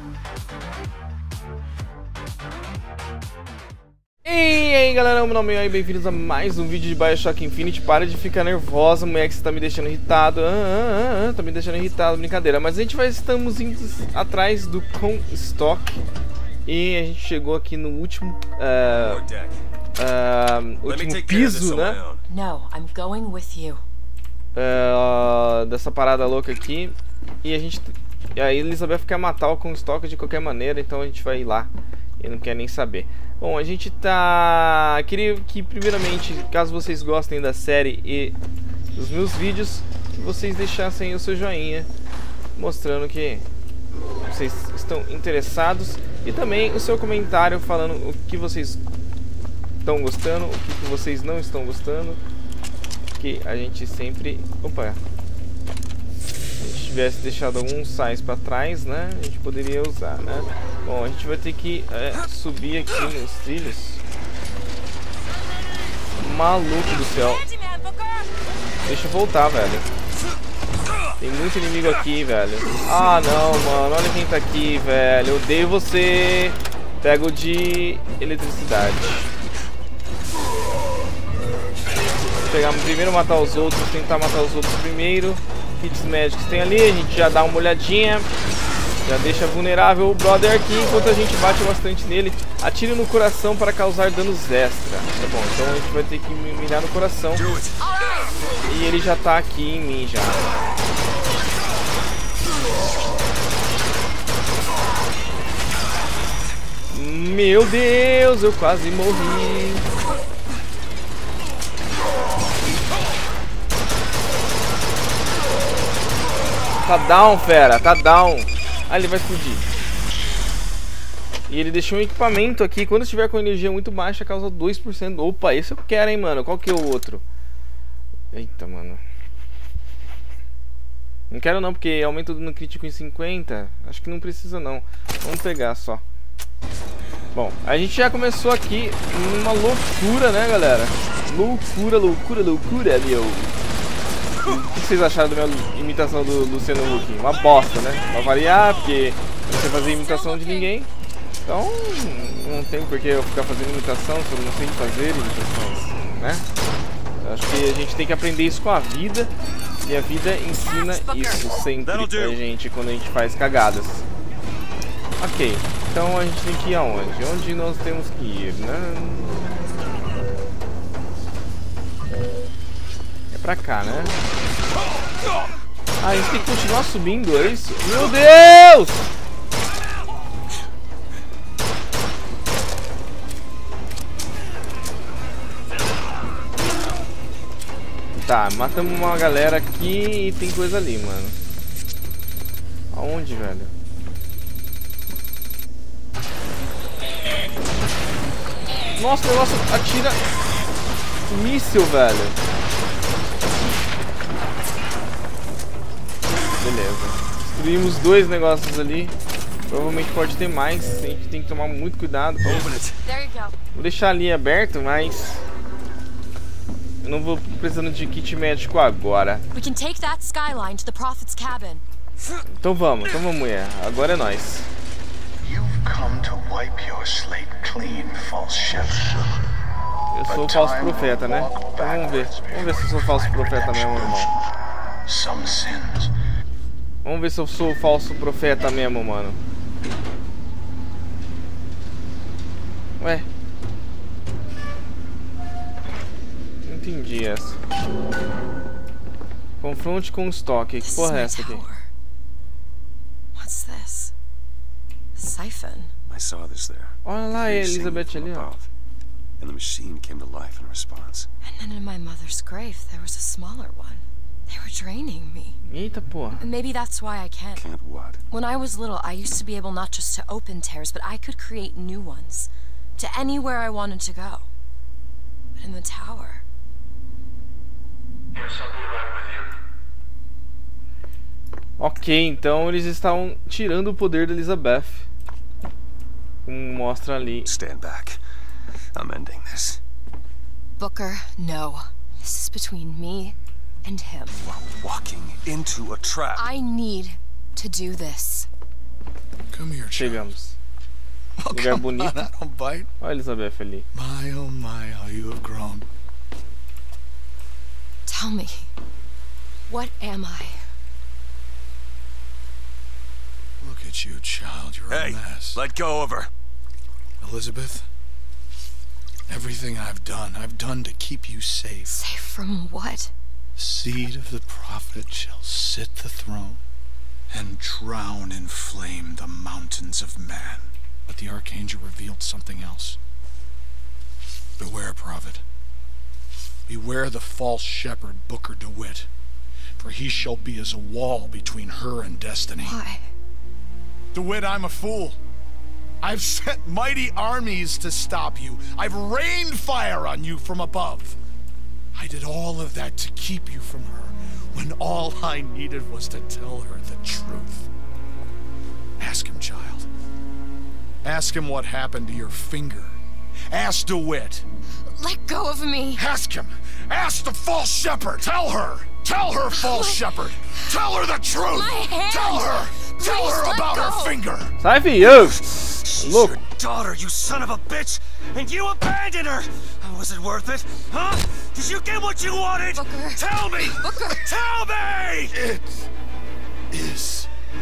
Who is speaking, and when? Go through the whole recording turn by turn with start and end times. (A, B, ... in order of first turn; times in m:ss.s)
0:04.2-0:15.9 A
0:16.7-0:19.2 A
0:19.0-0:19.6 B
0:20.0-0:22.0 A
0:20.8-0:22.2 B
0:22.3-0:23.8 C
0:24.6-0:38.4 A
0:38.9-0:41.9 A
0:42.6-0:43.4 A
0:44.2-0:48.8 A
0:49.8-0:52.2 A
0:53.2-0:55.0 A
0:56.6-1:04.0 A
1:06.2-1:07.4 A
1:06.9-1:08.3 C
1:08.8-1:09.9 A
1:11.2-1:19.3 A
1:22.5-1:28.3 A
1:29.0-1:37.4 A
1:37.3-1:37.8 B
1:37.8-1:38.4 C
1:38.7-1:40.5 A
1:46.9-1:49.9 A
1:56.8-1:59.7 A
2:01.5-2:07.2 A
2:08.3-2:09.0 A
2:11.3-2:16.0 A
2:17.3-2:23.5 A
2:24.4-2:30.9 A
2:29.7-2:30.7 C
2:31.4-2:36.4 A
2:37.2-2:39.3 A
2:39.8-2:44.1 A
2:40.7-2:41.4 C
2:41.8-2:42.4 B
2:45.2-2:49.8 A
2:53.3-2:54.1 A
2:56.0-2:59.0 A
3:08.2-3:11.4 A
3:12.9-3:13.7 A
3:19.0-3:20.2 A
3:21.3-3:22.4 A
3:26.6-3:29.1 A
3:29.7-3:32.7 A
3:32.4-3:33.0 B
3:33.0-3:33.6 C
3:33.8-3:35.4 A
3:37.0-3:39.4 A
3:39.5-3:41.8 C
3:42.6-3:44.7 A
3:45.4-3:49.4 D
3:50.1-3:54.3 A
3:50.3-3:54.4 D
3:55.0-3:56.1 D
3:57.0-3:59.4 A
4:03.0-4:03.3 A
4:06.6-4:07.6 A
4:09.6-4:11.6 A
4:10.8-4:11.9 C
4:13.4-4:14.1 C
4:15.2-4:15.9 C
4:16.1-4:18.7 B
4:17.0-4:18.5 A
4:19.4-4:21.3 B
4:21.4-4:25.6 C
4:25.6-4:26.4 A
4:26.4-4:27.7 C
4:27.6-4:28.2 B
4:28.3-4:34.5 C
4:35.6-4:36.4 C
4:41.8-4:45.1 A
4:46.5-4:47.5 A
4:47.4-4:48.2 B
4:48.9-4:49.8 B
4:50.8-4:54.4 C
4:54.4-4:56.4 B
4:56.4-4:58.5 C
4:59.5-5:00.3 D
4:59.9-5:00.6 A
5:01.4-5:02.9 D
5:01.5-5:02.2 A
5:03.0-5:03.9 A
5:03.9-5:05.9 D
5:08.1-5:08.7 C
5:09.7-5:10.7 C
5:13.6-5:15.6 D
5:14.9-5:16.3 B
5:17.2-5:17.9 D
5:19.3-5:22.0 D
5:21.9-5:23.1 C
5:23.6-5:26.6 D
5:27.3-5:33.0 D
5:34.6-5:35.4 D
5:36.7-5:39.1 D
5:39.8-5:42.8 D
5:42.6-5:43.1 C
5:44.1-5:45.2 D
5:46.0-5:51.2 D
5:51.9-5:57.7 D
5:59.0-5:59.9 D
6:01.0-6:04.4 D
6:04.9-6:06.0 C
6:06.0-6:14.6 D
6:09.5-6:10.0 C
6:10.5-6:14.2 C
6:14.6-6:15.4 A
6:15.0-6:25.4 B
6:16.0-6:16.4 A
6:22.7-6:24.2 C
6:25.3-6:25.9 D
6:26.7-6:27.3 D